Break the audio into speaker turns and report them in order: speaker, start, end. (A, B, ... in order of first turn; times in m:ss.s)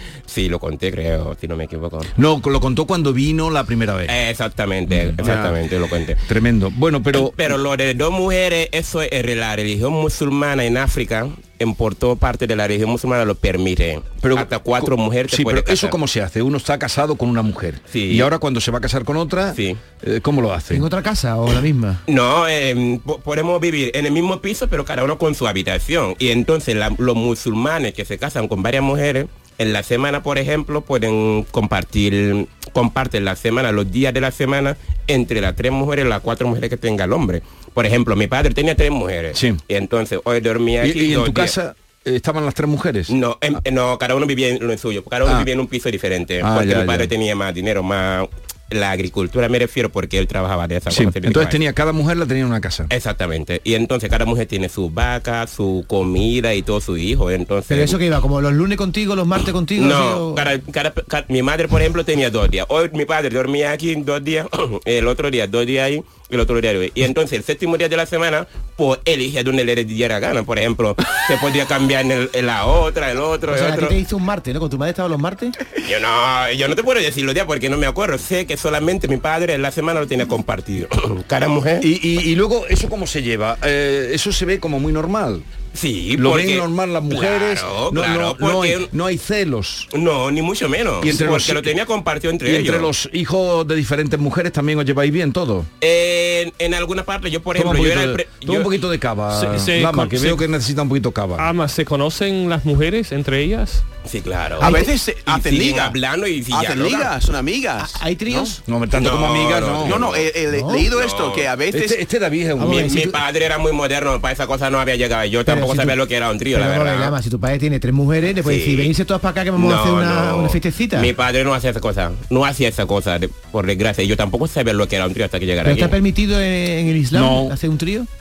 0:00.3-0:02.1 A
0:02.2-0:04.1 B
0:04.1-0:06.2 A
0:04.9-0:05.6 B
0:06.2-0:07.3 B
0:07.1-0:16.0 A
0:14.2-0:20.8 B
0:17.9-0:18.3 A
0:19.5-0:19.8 A
0:20.7-0:22.0 C
0:22.1-0:41.5 A
0:39.3-0:39.6 B
0:40.8-0:43.1 B
0:43.1-0:51.6 A
0:46.4-0:47.1 B
0:50.9-0:52.9 B
0:52.9-0:58.0 A
0:57.7-1:00.5 C
0:59.7-1:14.0 A
1:13.5-1:15.6 C
1:15.8-1:21.9 A
1:21.8-1:25.5 B
1:25.7-1:28.9 A
1:26.2-1:29.9 B
1:29.9-1:32.9 A
1:31.0-1:31.8 B
1:32.4-1:35.7 B
1:35.8-1:38.7 A
1:37.5-1:41.5 B
1:39.3-1:40.4 D
1:41.4-1:43.8 D
1:44.0-1:47.1 A
1:44.6-1:46.0 E
1:46.5-1:48.5 E
1:47.8-1:48.6 C
1:48.6-1:50.0 B
1:48.9-1:50.3 A
1:49.8-1:52.0 E
1:50.5-1:50.9 C
1:50.9-1:51.5 A
1:51.7-1:53.1 B
1:52.6-1:53.2 C
1:52.6-1:57.2 A
1:55.4-1:56.0 C
1:56.5-2:01.1 C
1:58.4-1:58.9 A
1:59.5-2:06.0 A
2:05.6-2:08.1 C
2:07.1-2:07.6 B